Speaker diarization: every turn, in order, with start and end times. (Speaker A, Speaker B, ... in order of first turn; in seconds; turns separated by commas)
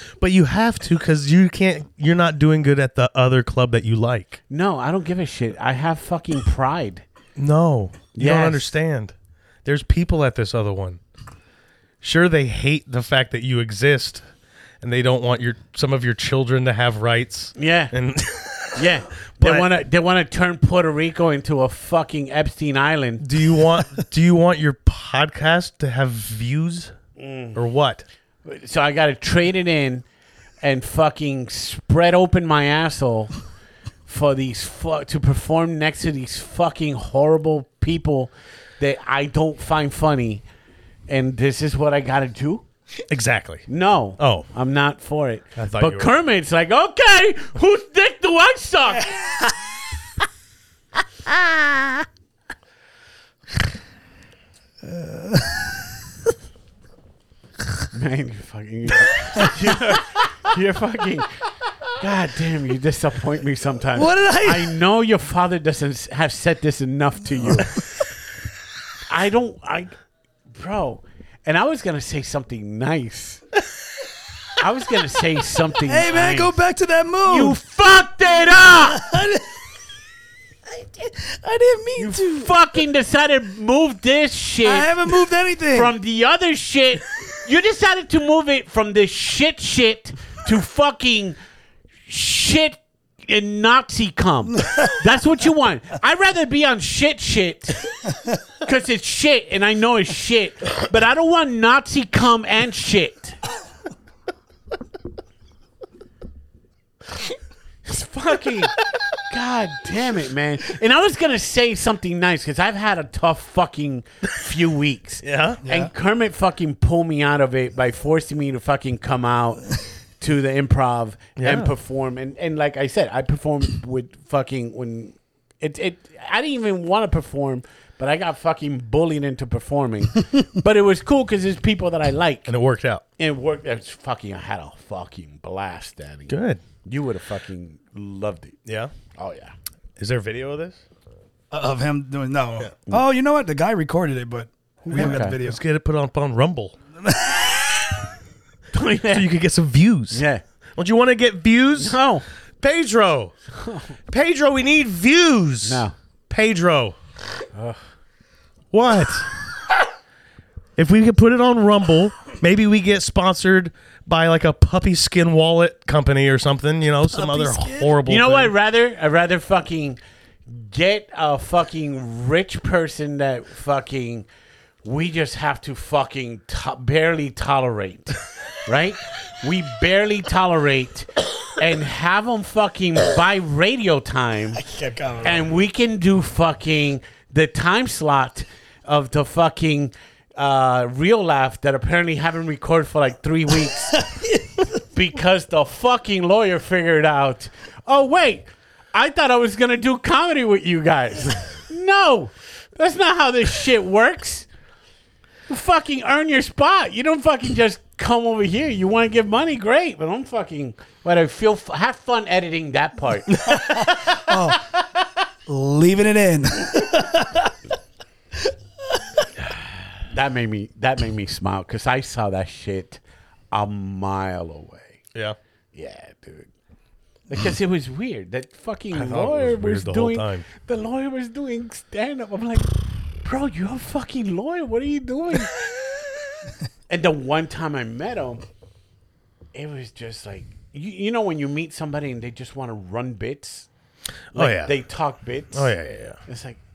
Speaker A: 0.2-4.4, Speaker B: 4.5-7.0, Speaker A: 7.4-9.1, Speaker B: 8.2-8.7, Speaker A: 9.6-11.0, Speaker A: 12.0-14.2, Speaker A: 14.8-19.7, Speaker B: 17.6-17.9, Speaker B: 18.7-23.2, Speaker A: 23.2-26.9, Speaker B: 27.2-27.6, Speaker A: 27.5-28.0, Speaker B: 28.4-30.0, Speaker B: 30.6-33.3, Speaker B: 34.1-40.4, Speaker B: 41.1-42.6, Speaker A: 43.1-43.6, Speaker B: 43.7-49.1, Speaker A: 44.2-44.5, Speaker A: 45.5-46.1, Speaker C: 54.8-55.9, Speaker B: 57.9-61.3, Speaker B: 61.9-67.8, Speaker C: 63.9-64.8, Speaker B: 69.1-69.9, Speaker B: 70.5-73.4, Speaker B: 74.6-76.6, Speaker C: 75.8-77.6, Speaker B: 77.2-79.0, Speaker C: 78.7-79.7, Speaker C: 80.7-82.5, Speaker B: 82.0-84.9, Speaker C: 84.6-85.9, Speaker B: 85.7-91.4, Speaker B: 92.1-97.9, Speaker B: 98.6-103.4, Speaker B: 107.8-132.5, Speaker A: 115.2-115.6, Speaker C: 115.6-115.9, Speaker A: 121.4-121.7, Speaker A: 132.5-133.0, Speaker B: 133.2-138.6, Speaker A: 136.3-136.6, Speaker A: 138.7-138.9, Speaker B: 139.1-139.5, Speaker A: 140.0-140.8, Speaker C: 141.5-145.6, Speaker B: 144.8-145.4, Speaker A: 144.9-146.7, Speaker C: 147.0-148.0, Speaker B: 148.7-149.3, Speaker A: 149.1-152.0, Speaker B: 150.1-150.4, Speaker B: 151.8-152.2, Speaker A: 152.6-153.3, Speaker B: 153.5-153.9, Speaker A: 154.1-156.9, Speaker B: 155.6-155.9, Speaker B: 157.5-157.8, Speaker A: 158.7-159.3, Speaker A: 160.8-168.5, Speaker C: 167.1-168.0, Speaker B: 168.1-174.3, Speaker B: 174.8-184.6, Speaker C: 184.6-185.4, Speaker B: 185.2-194.0, Speaker C: 193.9-194.7, Speaker B: 194.9-204.5, Speaker B: 205.5-213.6, Speaker C: 213.8-214.6, Speaker C: 215.4-217.5, Speaker C: 218.3-219.2, Speaker B: 220.1-223.0, Speaker B: 223.5-225.0, Speaker B: 225.7-226.5, Speaker B: 227.3-235.7, Speaker A: 228.9-230.5, Speaker B: 236.9-238.4, Speaker B: 239.5-243.7, Speaker A: 244.3-244.8, Speaker B: 244.3-245.7, Speaker A: 245.5-246.2, Speaker B: 246.2-246.6